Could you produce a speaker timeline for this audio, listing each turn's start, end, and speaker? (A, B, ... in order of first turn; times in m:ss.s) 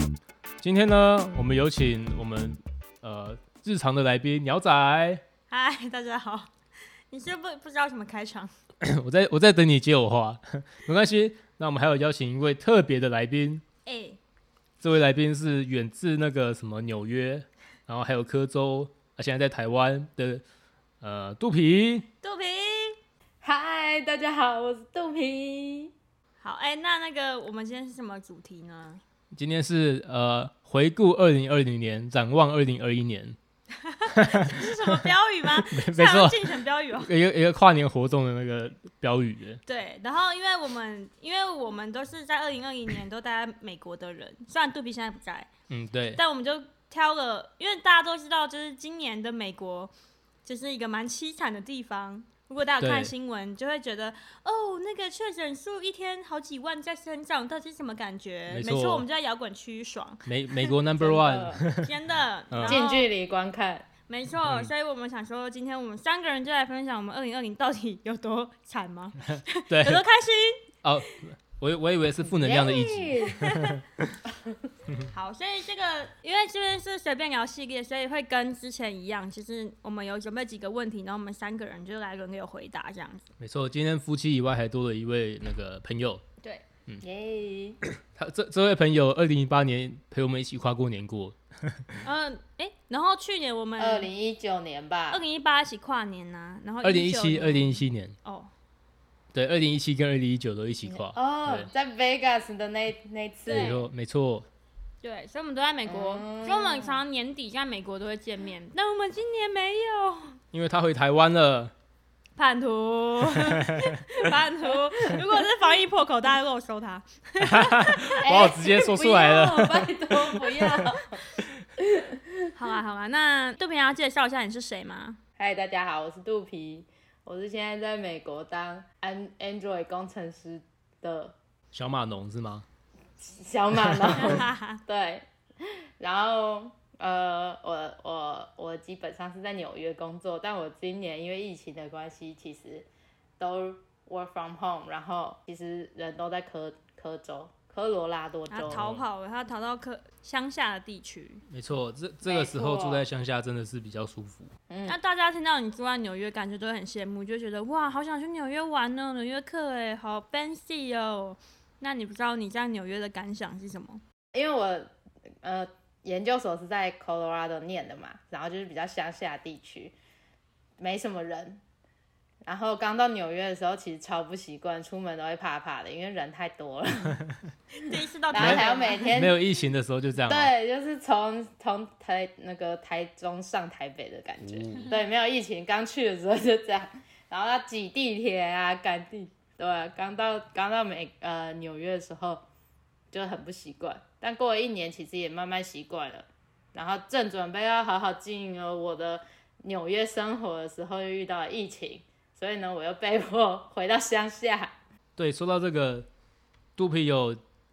0:00.6-0:05.2 A
0:05.5-0:06.5 B
0:07.1-0:08.5 B
0:08.8-0:13.6 A
0:13.8-0:14.2 B
0:14.8-0:20.4 A
0:21.0-0:22.1 A
0:22.2-0:23.0 B
0:23.4-0:25.9 C
0:26.4-0:29.0 B
0:29.3-0:33.4 A
0:33.8-0:37.1 B
0:34.1-0:35.0 A
0:35.6-0:39.6 A
0:39.6-0:45.5 B
0:45.7-0:46.2 A
0:46.2-0:49.9 B
0:50.4-1:00.7 B
0:52.8-0:53.1 A
0:58.5-0:59.0 A
1:00.2-1:01.9 A
1:01.0-1:01.6 C
1:01.8-1:03.1 B
1:02.5-1:02.8 A
1:02.6-1:03.9 C
1:04.1-1:10.7 B
1:09.7-1:10.0 A
1:10.8-1:13.8 A
1:12.2-1:13.4 C
1:13.3-1:13.8 B
1:15.1-1:23.3 B
1:23.4-1:26.2 A
1:27.0-1:27.8 C
1:27.9-1:32.0 A
1:32.0-1:34.1 B
1:33.8-1:35.2 C
1:35.1-1:38.5 B
1:36.8-1:38.2 A
1:39.3-1:41.7 A
1:40.9-1:43.7 C
1:43.4-1:43.8 B
1:43.5-1:44.5 A
1:45.0-1:50.4 B
1:45.8-1:47.0 C
1:50.5-1:51.7 A
1:52.4-1:58.2 B
1:53.4-1:54.0 A
1:57.4-2:01.4 A
1:58.2-2:01.2 C
2:01.8-2:02.5 C
2:02.5-2:05.2 B
2:05.4-2:11.4 C
2:11.7-2:12.6 A
2:13.2-2:22.9 C
2:13.8-2:14.4 A
2:14.2-2:14.8 B
2:23.4-2:28.8 C
2:28.5-2:31.4 B
2:28.7-2:29.0 A
2:31.5-2:34.5 A
2:32.2-2:33.0 C
2:34.7-2:35.0 C
2:34.9-2:44.0 B
2:44.3-2:44.9 C
2:45.4-2:49.9 C
2:50.8-2:51.6 C
2:52.4-2:57.2 C
2:57.7-2:59.1 B
2:58.3-2:59.4 C
2:58.3-3:00.5 A
3:00.3-3:12.4 C
3:04.4-3:04.9 A
3:13.1-3:24.7 C
3:25.2-3:26.1 A
3:26.8-3:27.4 A